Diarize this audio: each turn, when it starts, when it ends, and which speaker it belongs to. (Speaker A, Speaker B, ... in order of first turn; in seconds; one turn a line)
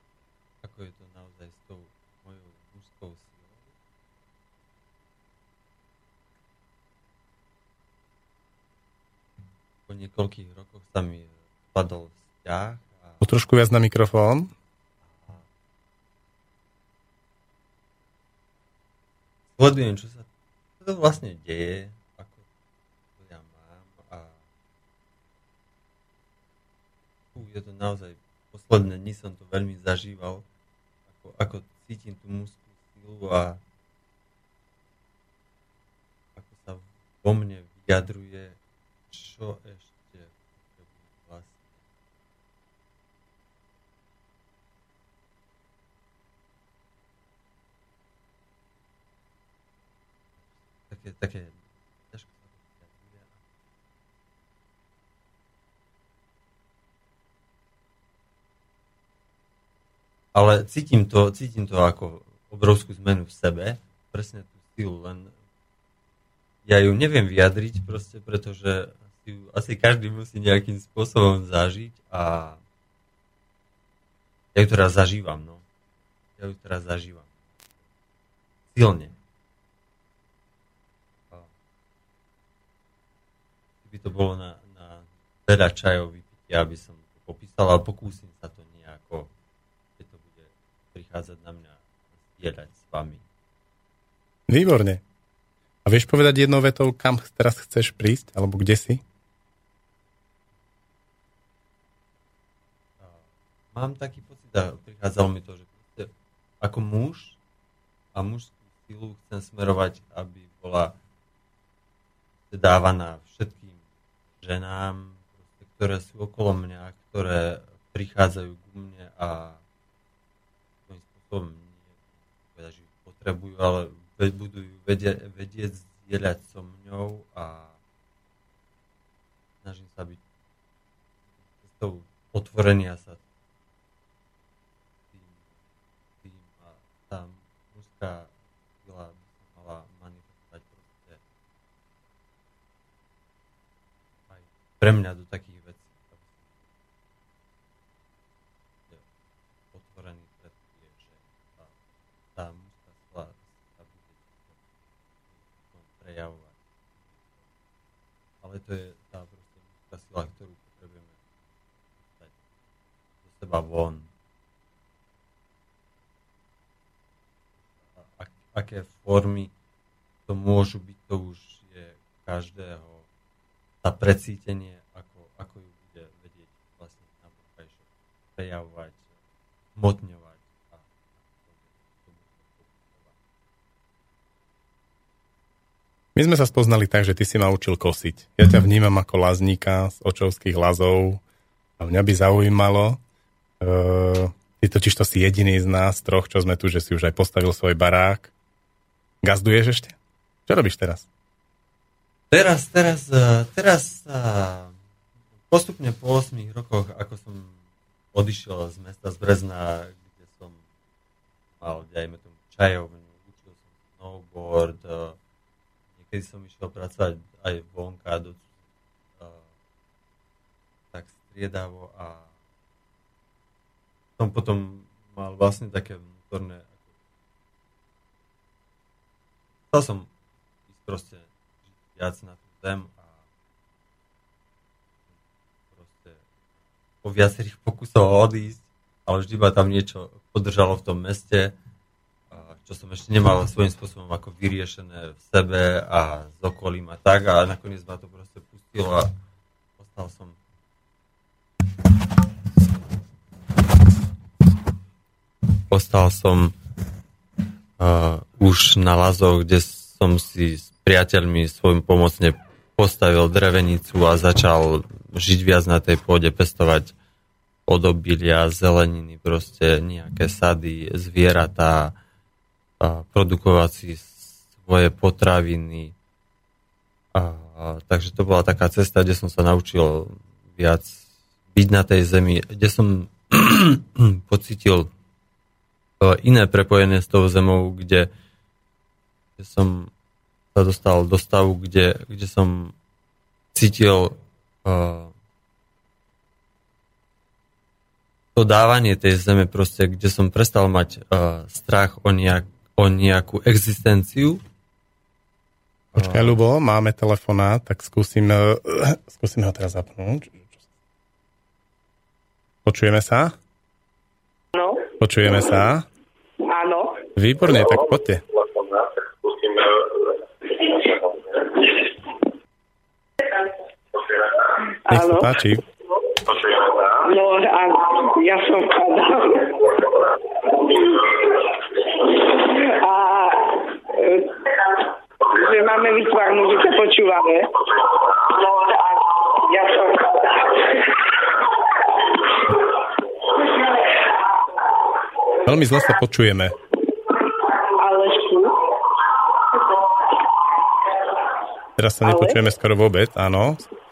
Speaker A: 0.6-3.7
Speaker A: 9.9-13.2
Speaker B: 13.2-14.5
Speaker A: 15.2-15.4
Speaker A: 19.6-20.3
Speaker A: 20.8-22.4
Speaker A: 23.2-24.4
Speaker A: 27.3-30.4
Speaker A: 31.1-33.6
Speaker A: 36.4-38.6
Speaker A: 39.1-41.8
Speaker A: 50.9-53.4
Speaker A: 60.3-65.3
Speaker A: 66.7-72.6
Speaker A: 74.5-75.6
Speaker A: 76.4-77.3
Speaker A: 78.7-79.2
Speaker A: 83.8-89.3
Speaker A: 90.0-93.2
Speaker B: 94.5-95.0
Speaker B: 95.8-99.0
Speaker A: 103.7-107.4
Speaker A: 108.1-111.0
Speaker A: 112.5-113.8
Speaker A: 114.4-119.6
Speaker A: 120.9-122.0
Speaker A: 122.5-127.8
Speaker A: 129.6-130.2
Speaker A: 131.6-133.2
Speaker A: 135.1-135.4
Speaker A: 136.2-138.3
Speaker A: 138.8-141.2
Speaker A: 144.3-146.6
Speaker A: 149.7-151.7
Speaker A: 152.4-154.6
Speaker A: 155.4-157.2
Speaker A: 158.4-161.2
Speaker A: 162.0-162.4
Speaker A: 163.2-164.1
Speaker A: 168.0-169.5
Speaker A: 170.3-173.1
Speaker A: 173.8-179.1
Speaker A: 179.8-183.1
Speaker B: 186.2-191.2
Speaker B: 191.8-193.0
Speaker B: 193.6-198.3
Speaker B: 199.2-200.0
Speaker B: 200.5-201.1
Speaker A: 202.3-204.7
Speaker A: 205.5-207.5
Speaker A: 208.1-210.6
Speaker A: 211.6-215.2
Speaker A: 216.0-218.5
Speaker A: 219.2-219.5
Speaker A: 220.9-222.3
Speaker A: 224.2-226.8
Speaker A: 229.7-230.1
Speaker A: 230.7-231.3
Speaker A: 231.9-233.2
Speaker A: 235.7-236.2
Speaker A: 237.0-241.6
Speaker A: 242.3-249.1
Speaker A: 249.8-250.4
Speaker A: 255.7-256.6
Speaker A: 257.8-266.9
Speaker A: 267.7-271.9
Speaker A: 272.8-275.9
Speaker A: 277.1-284.9
Speaker A: 286.0-288.1
Speaker A: 289.4-289.9
Speaker A: 290.5-292.8
Speaker A: 293.5-295.1
Speaker A: 298.4-304.4
Speaker A: 305.9-306.4
Speaker B: 305.9-310.3
Speaker B: 312.7-313.4
Speaker C: 314.6-314.9
Speaker B: 315.0-315.9
Speaker C: 316.4-317.0
Speaker B: 317.2-318.2
Speaker C: 324.9-325.3
Speaker B: 324.9-325.6
Speaker C: 327.0-329.8
Speaker C: 330.5-331.1
Speaker C: 332.2-334.5
Speaker C: 335.2-337.6
Speaker C: 338.3-340.8
Speaker B: 345.4-346.6
Speaker C: 347.7-348.6
Speaker B: 351.8-353.7
Speaker C: 352.0-352.3